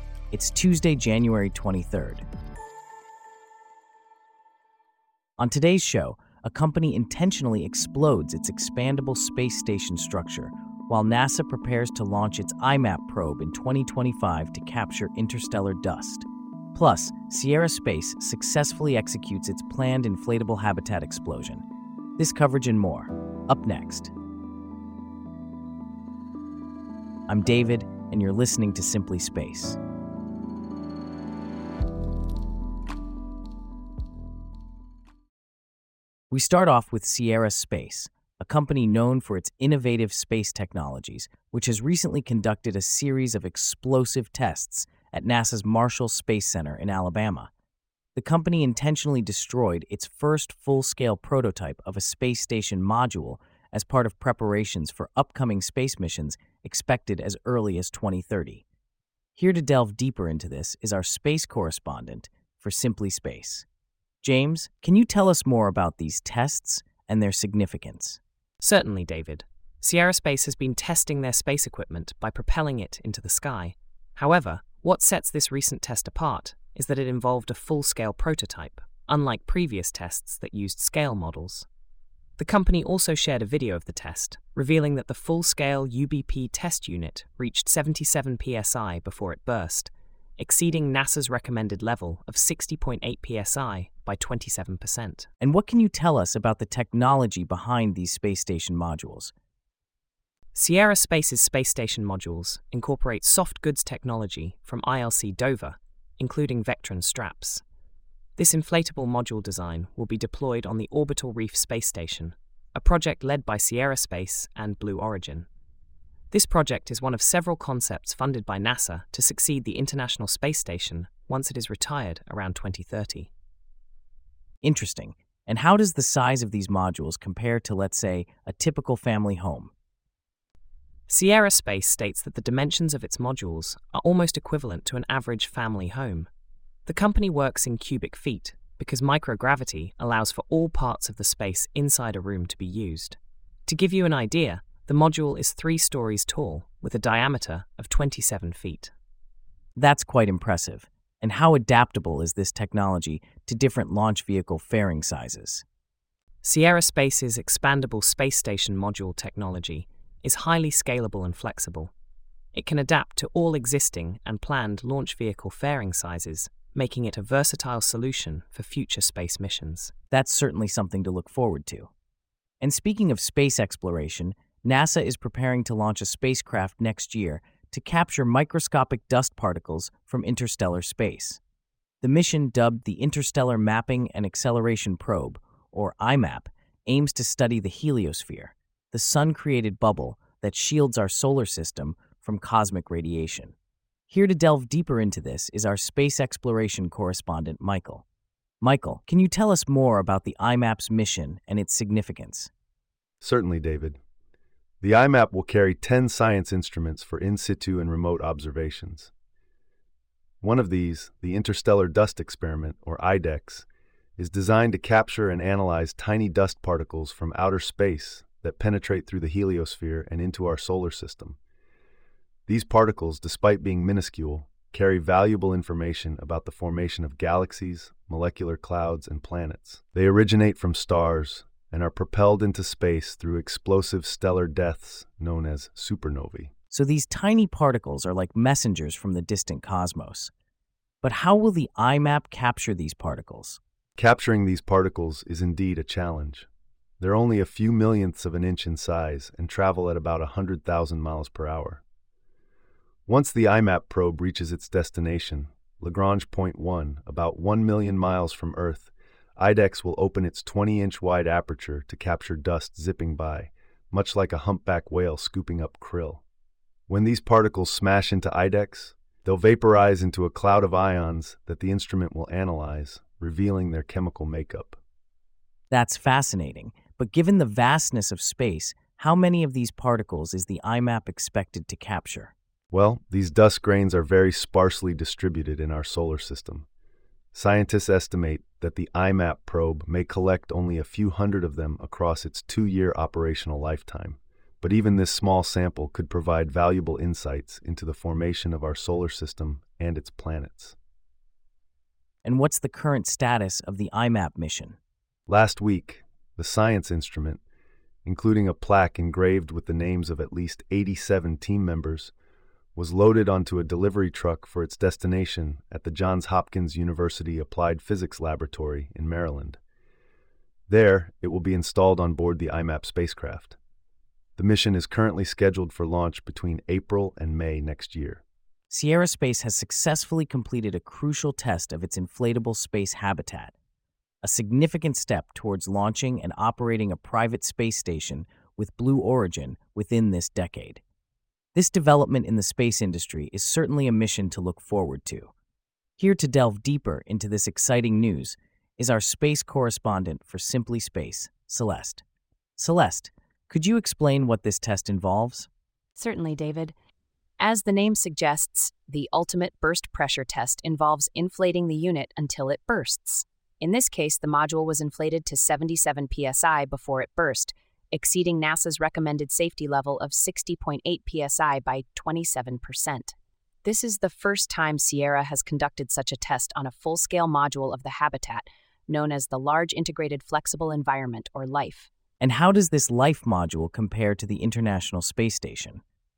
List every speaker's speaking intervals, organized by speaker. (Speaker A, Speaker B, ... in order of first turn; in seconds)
Speaker A: 0.3-2.2, 5.4-21.6, 22.2-24.1, 27.3-29.8, 36.3-47.5, 48.1-58.6, 59.4-63.6, 64.2-68.2, 95.4-99.3, 124.6-129.7, 149.8-155.6, 170.1-171.9, 172.6-181.4, 182.0-193.6, 194.1-198.1, 198.6-202.5, 236.7-240.3, 241.0-243.6, 275.7-282.3, 302.2-304.8, 328.7-333.5, 334.2-340.8, 341.5-345.3, 346.0-352.0, 352.6-355.5, 382.2-385.8
Speaker B: 68.6-81.7, 82.4-95.3, 100.5-107.6, 108.4-115.5, 116.3-123.3, 131.1-136.3, 136.9-148.9, 156.4-161.9, 162.5-169.9
Speaker C: 203.2-204.0, 204.8-209.1, 210.4-213.7, 214.2-221.4, 222.5-236.5, 244.0-246.5, 247.0-251.8, 253.1-266.2, 266.9-274.8, 282.7-286.6, 287.3-300.8, 305.3-307.4, 308.0-312.1, 312.8-319.6, 320.7-323.6, 324.4-328.2
Speaker D: 356.0-356.7, 357.4-381.9